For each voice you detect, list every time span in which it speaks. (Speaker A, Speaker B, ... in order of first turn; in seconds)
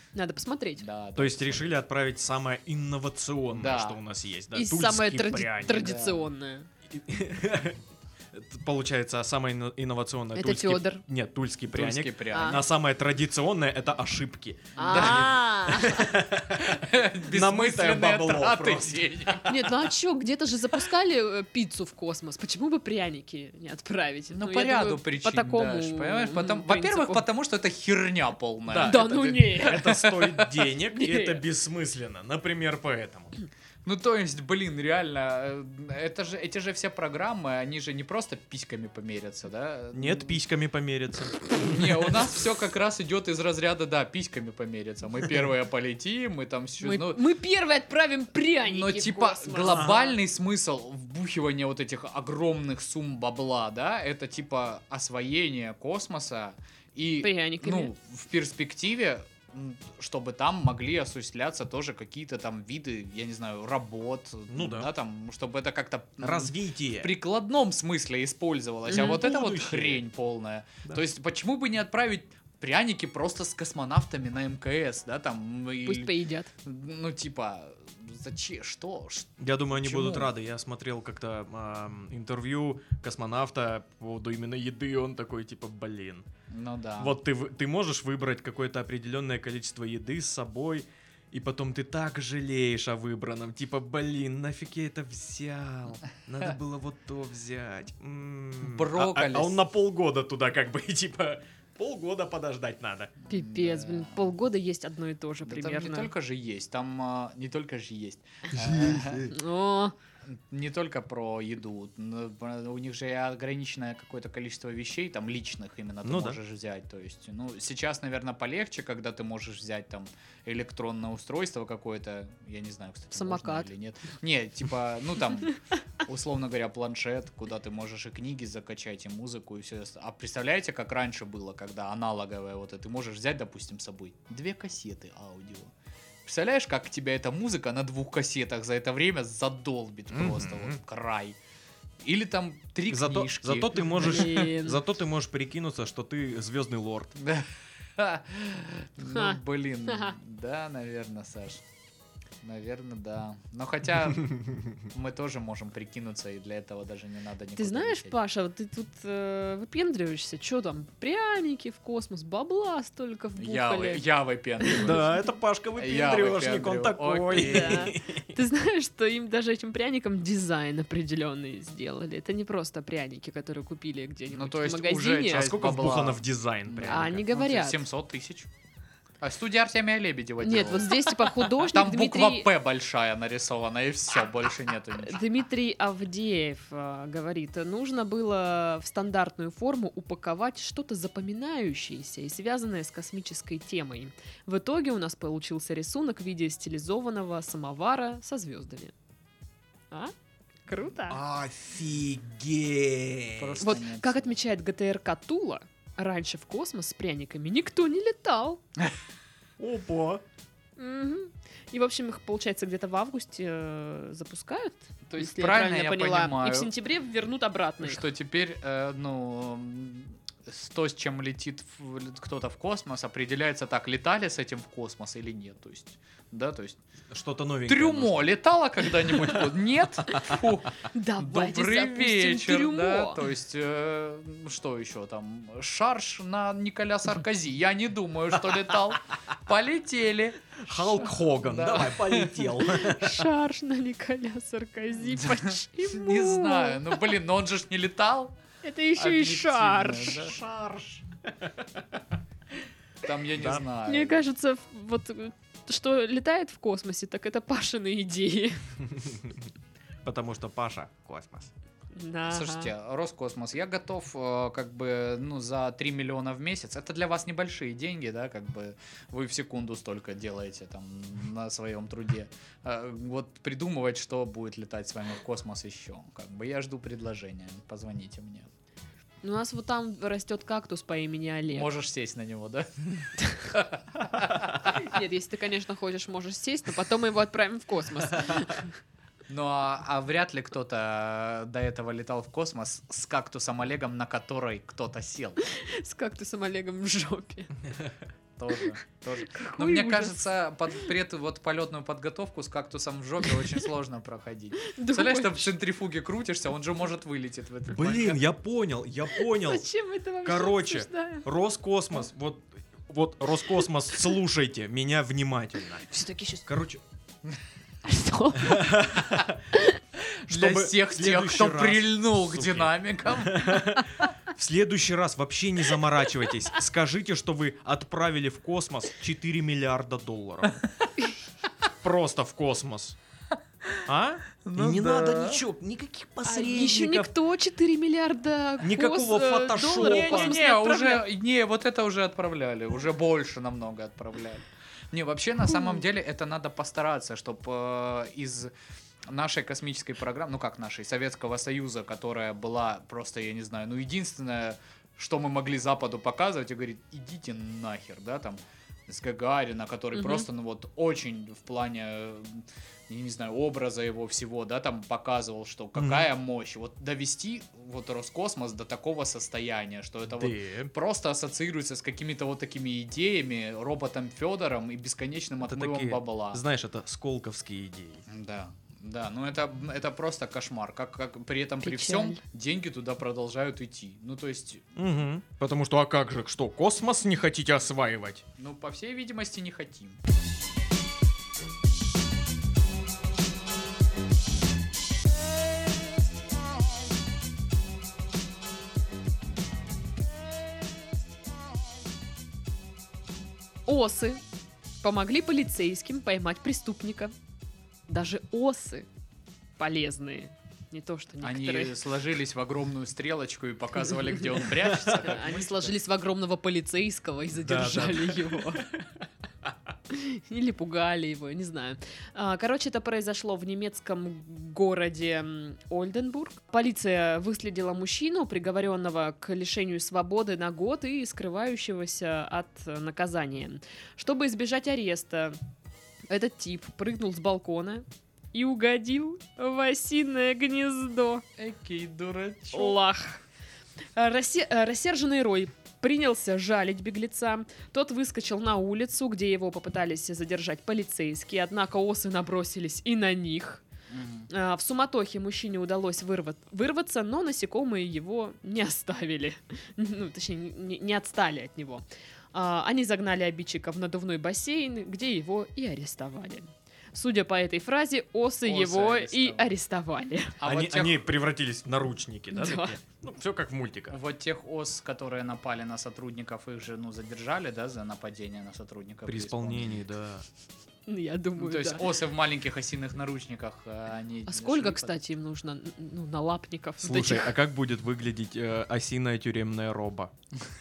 Speaker A: 0.1-0.8, 4.5-6.7, 10.3-11.0, 12.3-12.6, 14.8-16.1, 19.4-27.2, 28.8-30.0, 30.9-31.4, 46.8-50.1, 57.2-57.9, 68.9-69.2, 75.8-76.5, 103.3-106.1, 109.3-109.9, 123.1-123.7, 143.9-144.8, 149.0-150.2, 157.6-164.0, 164.6-165.0, 167.3-175.4, 176.9-177.8, 180.4-182.5, 185.0-198.9, 200.7-201.2, 203.6-208.6, 210.8-218.0, 230.9-233.2, 242.6-247.0, 248.6-250.3, 253.8-258.6, 261.9-262.7, 279.2-281.7, 284.6-288.7, 295.4-297.5, 299.2-300.2, 304.6-305.5, 309.1-311.2, 315.9-316.4, 317.8-318.8, 319.5-319.8, 336.2-341.0, 345.5-345.8, 359.9-360.3, 381.6-382.2, 403.7-404.2, 404.8-407.1, 407.9-408.9, 409.6-411.8, 414.9-418.7, 419.9-435.4, 436.1-441.2, 442.5-443.2, 443.9-453.6, 454.3-470.4, 472.3-472.8, 480.9-481.9, 484.2-487.3
Speaker B: 0.8-1.8, 3.5-4.0, 5.7-6.3, 11.7-12.6, 14.8-15.4, 16.6-19.7, 24.3-30.5, 33.8-40.4, 41.5-47.2, 48.6-76.1, 76.6-80.3, 86.5-87.2, 98.6-99.6, 103.2-104.3, 105.4-109.3, 110.3-135.7, 136.2-141.4, 142.0-144.5, 147.2-151.6, 152.4-158.2, 163.4-165.0, 165.8-167.9, 174.3-178.5, 179.2-185.2, 203.4-204.4, 215.1-216.7, 217.8-226.8, 227.7-242.5, 245.1-248.3, 248.9-250.4, 253.0-254.2, 262.3-278.5, 281.5-284.7, 289.3-295.4, 298.4-308.2, 320.2-324.1, 334.4-335.4, 339.6-348.5, 349.1-376.4, 378.1-384.7, 388.4-390.0, 411.2-415.7, 441.4-442.8, 453.9-454.3, 468.4-469.5, 470.4-471.1, 473.9-479.8, 481.4-484.9
Speaker C: 1.1-5.9, 6.9-19.4, 28.7-33.3, 39.9-42.2, 49.6-50.0, 64.5-64.9, 66.2-67.2, 68.9-70.0, 79.4-86.2, 87.0-103.1, 108.5-109.3, 116.0-116.4, 140.1-140.8, 142.9-147.1, 164.8-168.3, 175.3-177.2, 201.1-203.6, 209.6-210.2, 227.1-228.3, 240.6-243.3, 250.2-252.0, 253.3-253.6, 258.9-259.5, 260.0-261.5, 307.7-309.6, 310.2-315.9, 316.4-316.8, 318.4-319.4, 320.3-330.6, 331.8-333.0, 333.8-337.1, 338.6-340.4, 365.8-366.1, 370.1-370.7, 375.4-378.0, 384.8-388.2, 414.6-415.1, 417.3-419.0, 470.4-474.0, 479.1-480.2, 486.8-490.1